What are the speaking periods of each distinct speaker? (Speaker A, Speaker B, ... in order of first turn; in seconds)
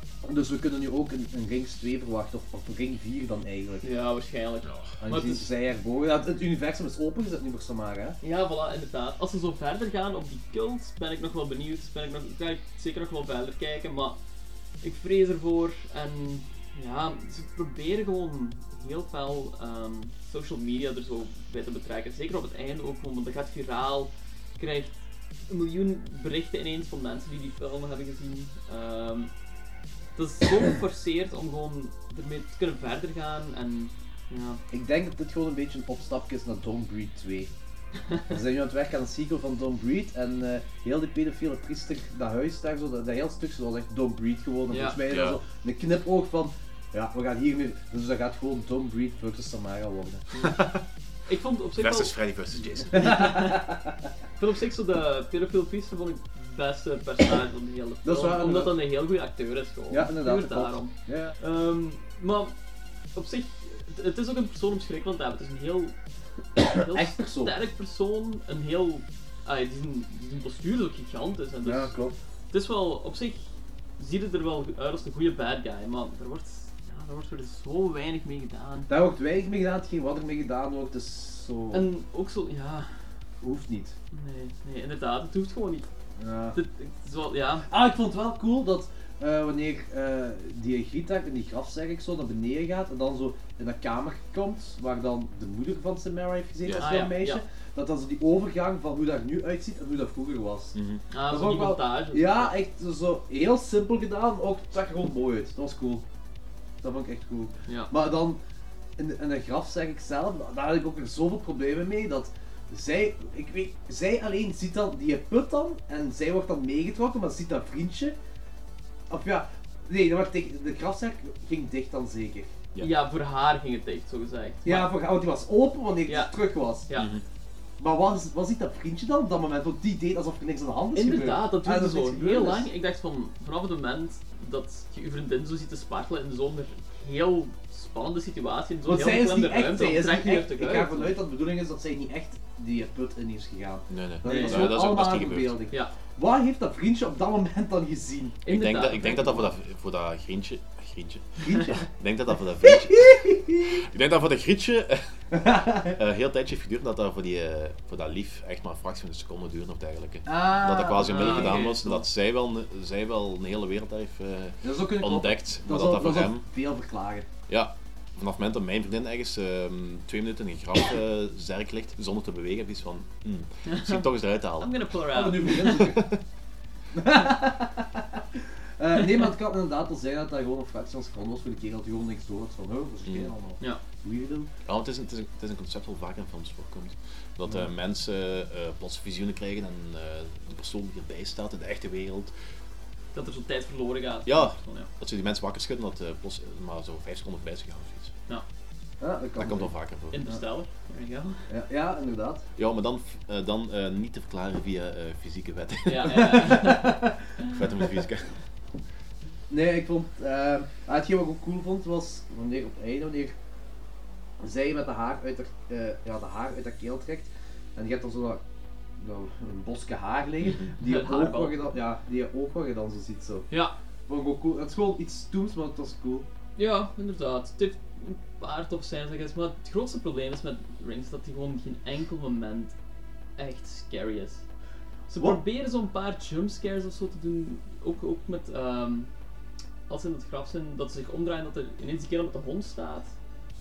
Speaker A: 0.2-3.8, 5.0-8.2, 34.7-37.5, 38.3-50.3, 52.9-53.9, 58.0-58.8, 59.9-61.3, 66.6-67.5, 71.6-72.2, 78.9-81.9, 83.4-84.0, 86.2-86.6, 87.7-100.8, 101.3-106.0, 106.8-108.4, 109.0-118.2, 119.1-122.5, 124.6-126.9, 127.8-132.7, 138.8-148.4, 151.4-151.9, 152.6-153.8, 155.3-155.9, 160.2-162.0, 164.6-167.3, 175.1-176.1, 176.9-184.5, 199.0-199.7, 201.5-202.4, 206.1-207.2, 209.5-213.3, 214.4-218.4, 219.0-223.5, 224.1-226.3
Speaker B: 3.8-5.5, 8.2-14.2, 14.8-29.3, 30.1-34.6, 44.7-45.0, 51.2-52.1, 52.9-53.6, 54.4-62.5, 63.1-65.9, 66.5-71.9, 72.5-73.5, 74.0-78.9, 81.7-83.0, 84.1-85.8, 86.5-87.7, 96.8-97.4, 101.1-102.5, 122.8-124.9, 126.1-126.3, 130.9-141.2, 144.2-144.8, 148.4-149.4, 161.0-161.8, 173.7-174.1, 174.6-175.8, 193.1-194.9, 200.1-201.4, 205.8-206.9, 220.8-221.6, 223.5-223.7, 226.6-232.7, 233.4-234.4, 235.1-239.1, 239.9-243.1
Speaker C: 4.6-4.9, 45.1-45.4, 50.4-50.8, 51.8-53.3, 96.6-96.9, 100.7-101.0, 126.9-127.2, 143.9-145.6, 148.5-166.4, 167.5-174.9, 175.6-176.2, 184.7-192.3, 194.2-198.1, 199.4-200.2, 202.6-206.6, 207.4-208.3